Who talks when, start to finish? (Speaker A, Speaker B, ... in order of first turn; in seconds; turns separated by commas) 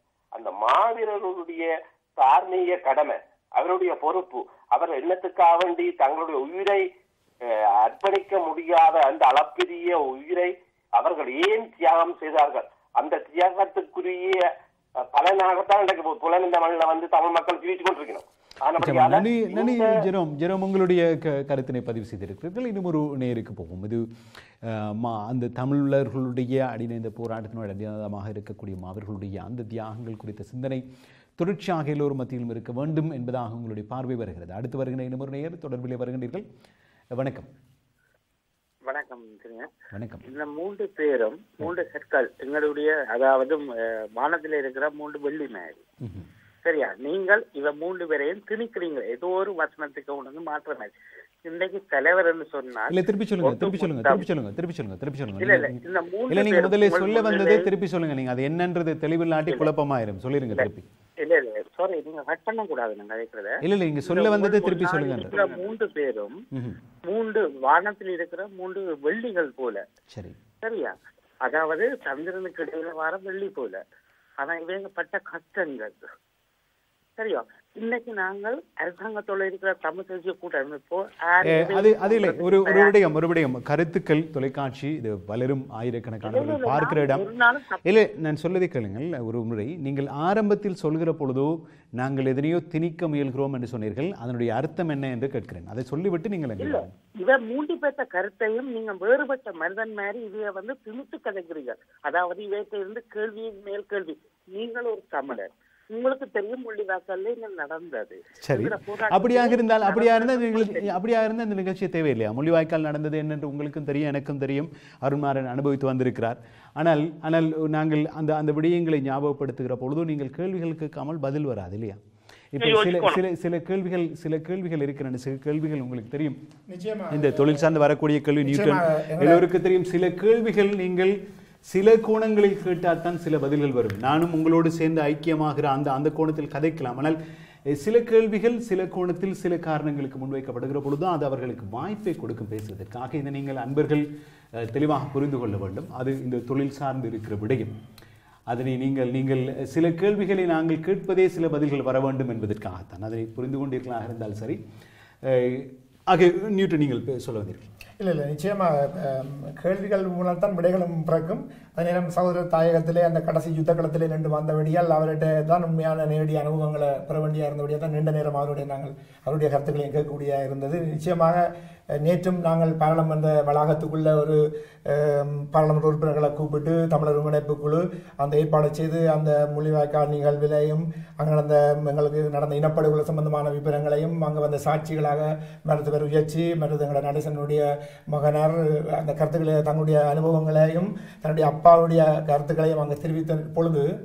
Speaker A: 0.3-6.8, Speaker A: 7.4-14.4, Speaker A: 15.0-19.9, Speaker B: 18.8-24.0, Speaker B: 24.6-30.8, Speaker B: 31.4-36.4, Speaker B: 37.1-37.5, Speaker C: 38.9-39.7, Speaker B: 39.9-40.2, Speaker C: 40.2-45.8, Speaker B: 46.0-46.3, Speaker C: 46.6-50.9, Speaker C: 51.5-54.2, Speaker B: 52.9-60.9, Speaker C: 55.4-57.6, Speaker C: 61.2-66.3, Speaker B: 63.6-65.7, Speaker B: 66.5-66.8, Speaker C: 67.1-69.8, Speaker B: 70.1-70.4, Speaker C: 70.6-73.8, Speaker C: 74.4-76.0, Speaker C: 77.2-82.9, Speaker B: 81.4-87.3, Speaker C: 86.2-87.8, Speaker B: 87.8-96.9, Speaker C: 96.6-110.9, Speaker B: 108.4-122.0, Speaker B: 122.5-126.4, Speaker C: 122.6-123.2, Speaker D: 126.7-127.7, Speaker B: 127.1-131.2, Speaker D: 128.4-129.4, Speaker B: 131.7-137.2, Speaker B: 137.7-144.0, Speaker B: 144.6-147.8, Speaker B: 148.5-154.6, Speaker B: 155.2-157.7, Speaker D: 158.0-171.5, Speaker D: 172.0-193.8